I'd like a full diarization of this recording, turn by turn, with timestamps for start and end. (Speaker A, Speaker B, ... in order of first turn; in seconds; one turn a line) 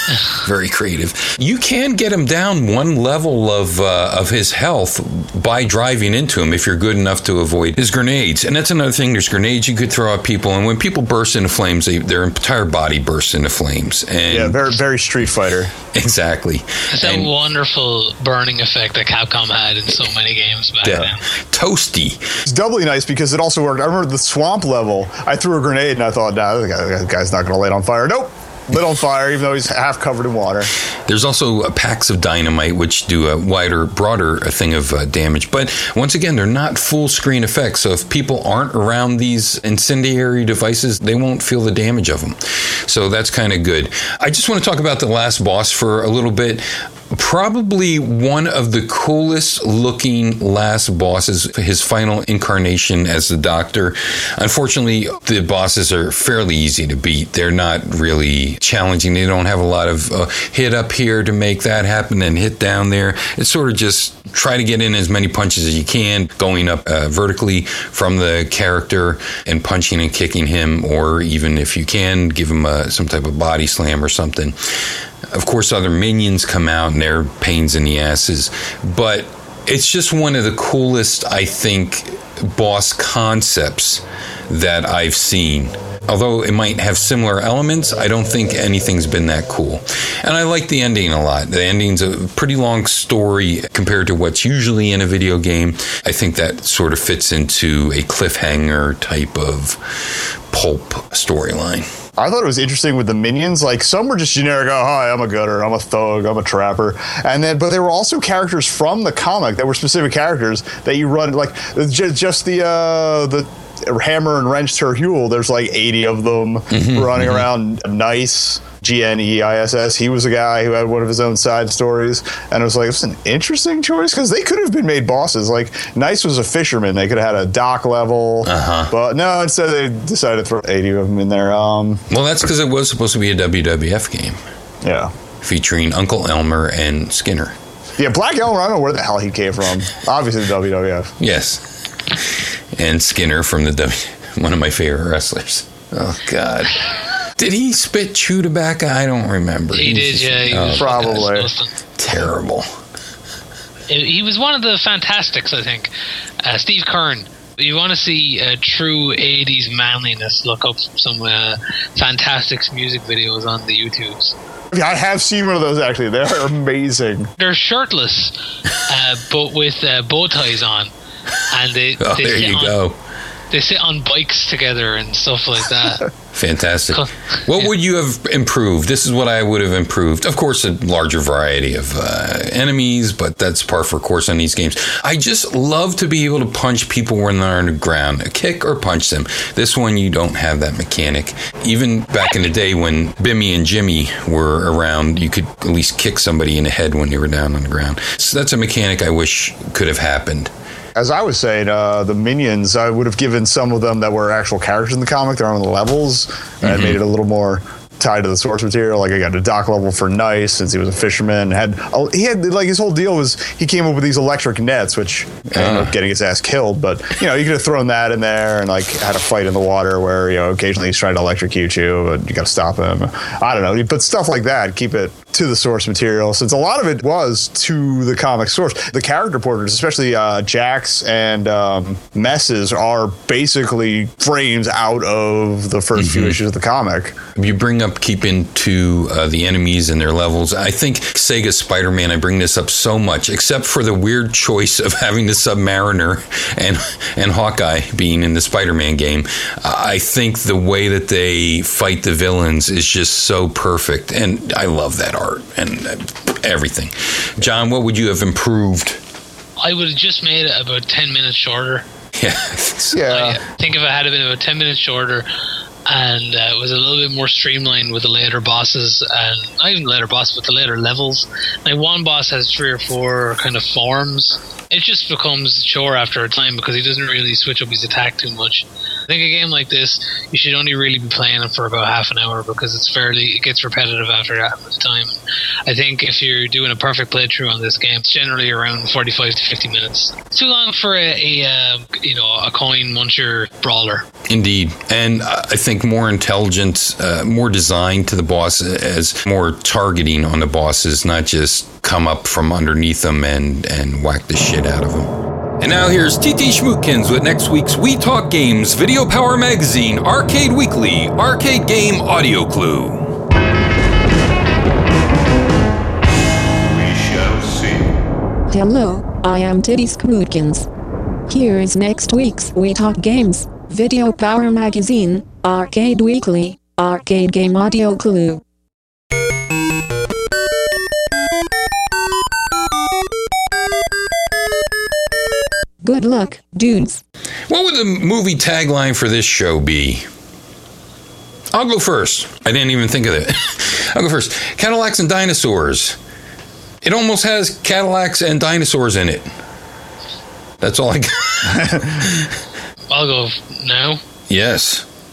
Speaker A: 0.3-14.8
Speaker B: 14.3-15.7
Speaker A: 15.9-17.3
Speaker C: 16.9-21.2
Speaker A: 20.9-22.4
Speaker B: 22.4-30.7
Speaker A: 31.1-74.6
Speaker A: 75.3-101.9
Speaker B: 102.2-132.0
Speaker A: 116.7-117.5
Speaker A: 128.4-128.9
Speaker A: 132.1-134.4
Speaker B: 134.8-135.1
Speaker A: 135.4-137.6
Speaker B: 138.0-141.1
Speaker A: 141.2-141.6
Speaker A: 142.1-146.8
Speaker A: 147.4-150.9
Speaker C: 149.7-151.7
Speaker B: 150.7-151.5
Speaker A: 152.0-152.7
Speaker C: 153.9-155.9
Speaker C: 156.4-164.3
Speaker B: 164.7-167.3
Speaker C: 167.4-170.9
Speaker C: 171.5-172.8
Speaker A: 172.0-172.9
Speaker C: 173.5-176.1
Speaker A: 176.3-200.5
Speaker C: 176.9-177.7
Speaker B: 200.9-237.2
Speaker A: 206.6-207.0
Speaker A: 215.5-215.9
Speaker A: 235.9-236.4
Speaker A: 237.4-259.0
Speaker C: 259.6-261.9
Speaker A: 262.2-263.0
Speaker B: 262.9-263.4
Speaker C: 263.1-265.3
Speaker C: 265.9-294.1
Speaker A: 294.3-313.1
Speaker A: 316.6-317.9
Speaker D: 318.5-320.7
Speaker D: 321.3-328.4
Speaker D: 335.8-337.0
Speaker A: 337.5-340.0
Speaker A: 341.5-346.0
Speaker A: 346.8-349.3
Speaker A: 350.6-352.3
Speaker B: 351.4-352.1
Speaker C: 352.9-354.0
Speaker A: 354.3-354.9